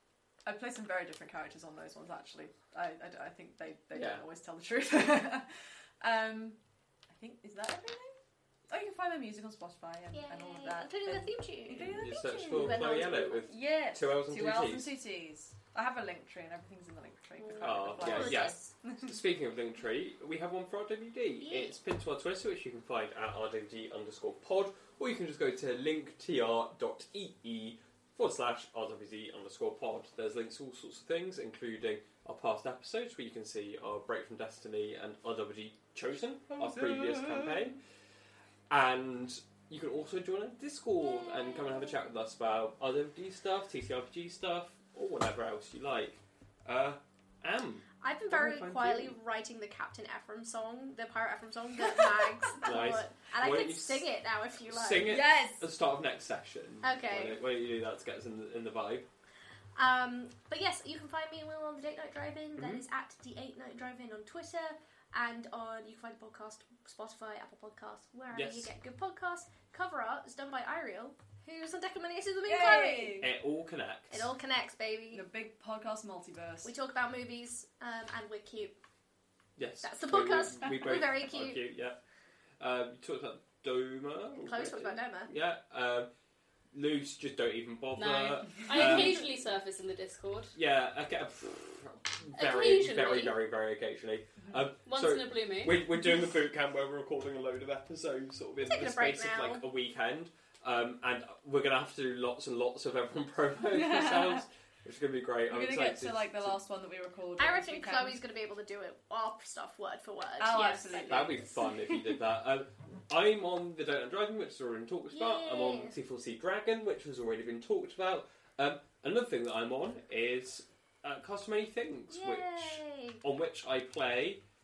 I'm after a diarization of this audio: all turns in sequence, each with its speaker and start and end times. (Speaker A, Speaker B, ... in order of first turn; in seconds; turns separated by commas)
Speaker A: 0.5-6.6, Speaker B: 3.9-4.2, Speaker A: 7.1-19.1, Speaker C: 10.1-13.5, Speaker B: 11.7-15.0, Speaker C: 17.4-18.7, Speaker B: 17.6-37.8, Speaker C: 21.4-21.8, Speaker B: 38.7-49.2, Speaker C: 41.3-41.6, Speaker C: 48.0-55.2, Speaker B: 52.6-54.1, Speaker B: 54.6-59.1, Speaker A: 55.0-55.7, Speaker C: 56.8-57.4, Speaker C: 59.8-73.3, Speaker B: 62.6-62.8, Speaker B: 68.3-68.7, Speaker A: 72.4-73.3, Speaker B: 73.2-74.3, Speaker C: 74.1-75.2, Speaker A: 75.1-76.8, Speaker C: 76.6-78.8, Speaker B: 79.6-82.0, Speaker C: 79.8-81.6, Speaker B: 82.6-86.1, Speaker C: 84.4-85.3, Speaker B: 86.7-89.2, Speaker D: 88.0-90.6, Speaker C: 88.7-89.2, Speaker B: 90.5-106.5, Speaker D: 92.3-93.3, Speaker D: 94.9-95.8, Speaker C: 98.6-99.6, Speaker A: 103.7-104.5, Speaker A: 105.5-108.2, Speaker C: 107.4-111.7, Speaker A: 110.4-111.5, Speaker B: 111.1-124.4, Speaker C: 115.1-116.0, Speaker C: 122.1-123.2